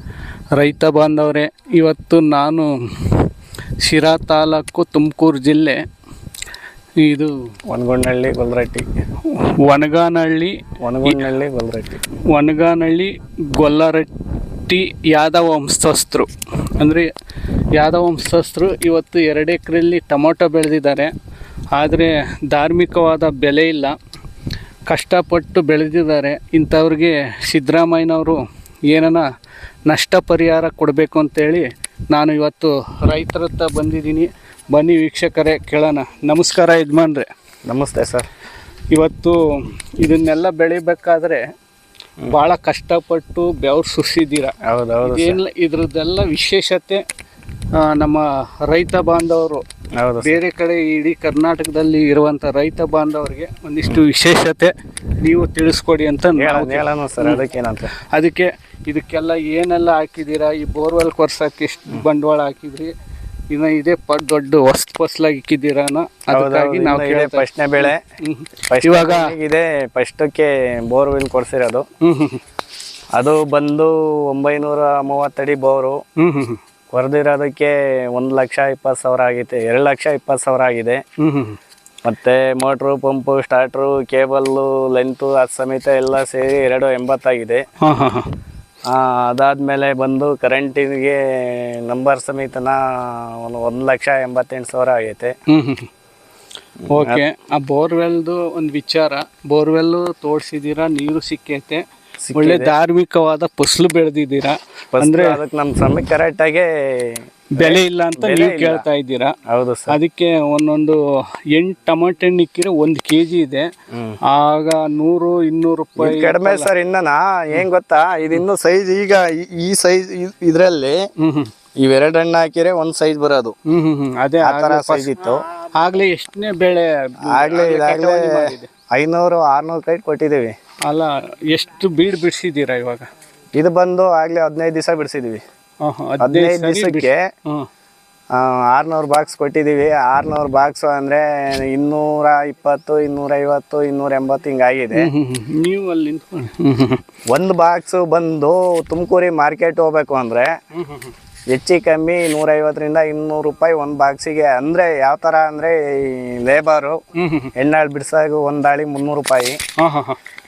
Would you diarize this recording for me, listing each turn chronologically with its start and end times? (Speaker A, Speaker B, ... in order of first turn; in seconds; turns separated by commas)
Speaker A: 0.6-3.2, Speaker A: 3.8-5.8, Speaker A: 7.0-7.3, Speaker B: 7.7-8.9, Speaker A: 9.3-11.3, Speaker B: 10.8-12.0, Speaker A: 12.3-14.1, Speaker A: 14.7-17.1, Speaker A: 17.8-21.1, Speaker A: 21.7-24.0, Speaker A: 24.9-29.2, Speaker A: 29.9-37.3, Speaker B: 37.7-38.3, Speaker A: 38.9-41.4, Speaker A: 42.3-47.0, Speaker B: 44.6-45.4, Speaker A: 47.7-49.6, Speaker B: 50.0-50.4, Speaker A: 50.2-57.4, Speaker B: 56.4-57.9, Speaker A: 58.1-62.9, Speaker A: 63.5-69.3, Speaker B: 66.3-68.0, Speaker B: 68.7-71.8, Speaker A: 72.0-72.4, Speaker B: 73.2-76.0, Speaker A: 76.2-76.6, Speaker B: 76.9-81.0, Speaker A: 81.2-81.6, Speaker B: 82.0-87.6, Speaker A: 87.8-88.3, Speaker B: 88.9-95.3, Speaker A: 95.5-95.9, Speaker B: 96.8-97.2, Speaker A: 96.9-101.8, Speaker B: 102.2-102.8, Speaker A: 102.3-105.4, Speaker B: 104.9-108.8, Speaker A: 107.5-109.3, Speaker B: 109.5-110.0, Speaker A: 109.9-111.0, Speaker A: 111.5-113.7, Speaker B: 113.9-114.2, Speaker A: 114.3-116.7, Speaker B: 116.0-121.0, Speaker A: 121.2-121.5, Speaker B: 121.8-123.5, Speaker A: 123.7-125.1, Speaker B: 124.4-125.4, Speaker A: 125.8-128.7, Speaker B: 127.3-130.5, Speaker A: 130.9-133.1, Speaker B: 133.6-135.4, Speaker A: 135.8-137.7, Speaker B: 136.2-137.2, Speaker B: 138.3-145.1, Speaker A: 144.9-147.0, Speaker B: 147.3-150.5, Speaker A: 150.8-151.1, Speaker B: 151.5-157.0, Speaker A: 157.2-157.5, Speaker B: 157.6-159.6, Speaker A: 159.8-160.2